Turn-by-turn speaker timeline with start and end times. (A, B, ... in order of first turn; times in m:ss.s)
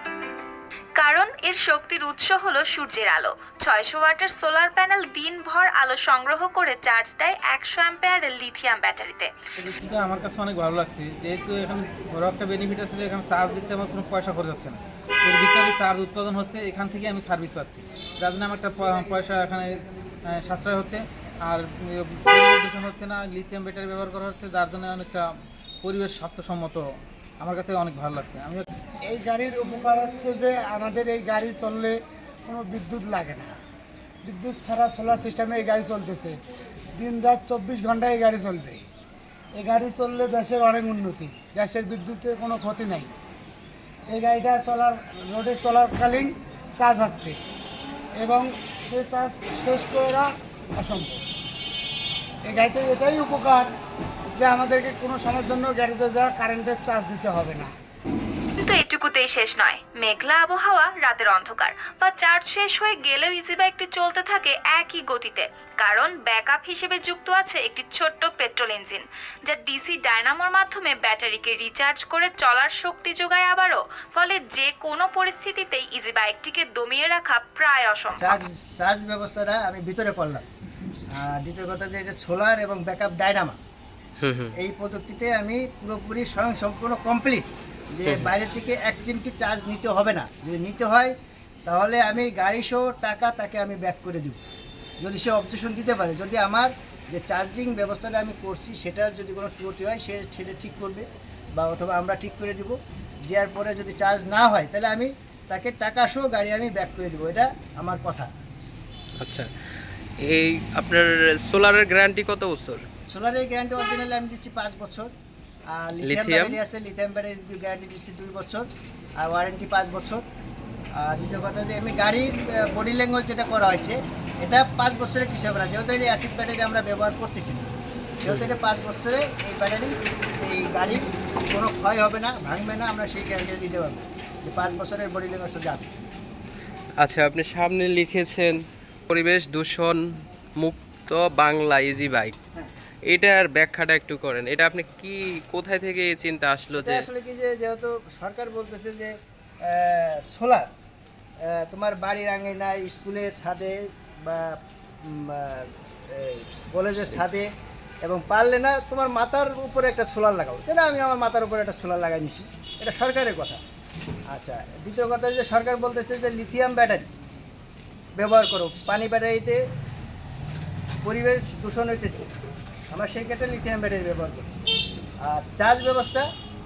0:01.0-0:09.3 A
0:09.6-0:19.7 B
0:20.3-0:25.2 B
0:25.8-0:26.8 B
0:27.4-0:28.6 B
0:29.1-0:33.6 C
0:34.2-0:36.4 C
0:37.0-0:38.8 C
0:39.6-0:43.1 C
0:44.1-0:47.4 C
0:48.2-0:51.2 C
0:52.5-0:53.7 C
0:54.4-0:57.7 C
0:58.6-1:18.4 A
1:18.2-1:20.4 D
1:21.1-1:23.6 D
1:24.2-1:24.5 E
1:24.6-1:31.1 D
1:31.6-1:34.4 D
1:35.0-1:41.0 D
1:41.6-1:48.3 D
1:49.2-1:49.5 E
1:50.2-1:52.8 E
1:53.1-1:55.1 D
1:55.7-2:00.2 D
1:56.0-1:56.6 E
2:01.0-2:07.6 D
2:08.2-2:15.9 D
2:17.0-2:20.0 E
2:20.6-2:22.3 E
2:23.1-2:27.1 E
2:26.8-2:29.1 D
2:29.6-2:30.7 D
2:31.4-2:37.5 D
2:38.0-2:43.6 D
2:44.3-2:47.1 D
2:48.2-2:49.6 D
2:51.0-2:52.3 D
2:52.9-2:54.6 D
2:55.2-2:56.3 D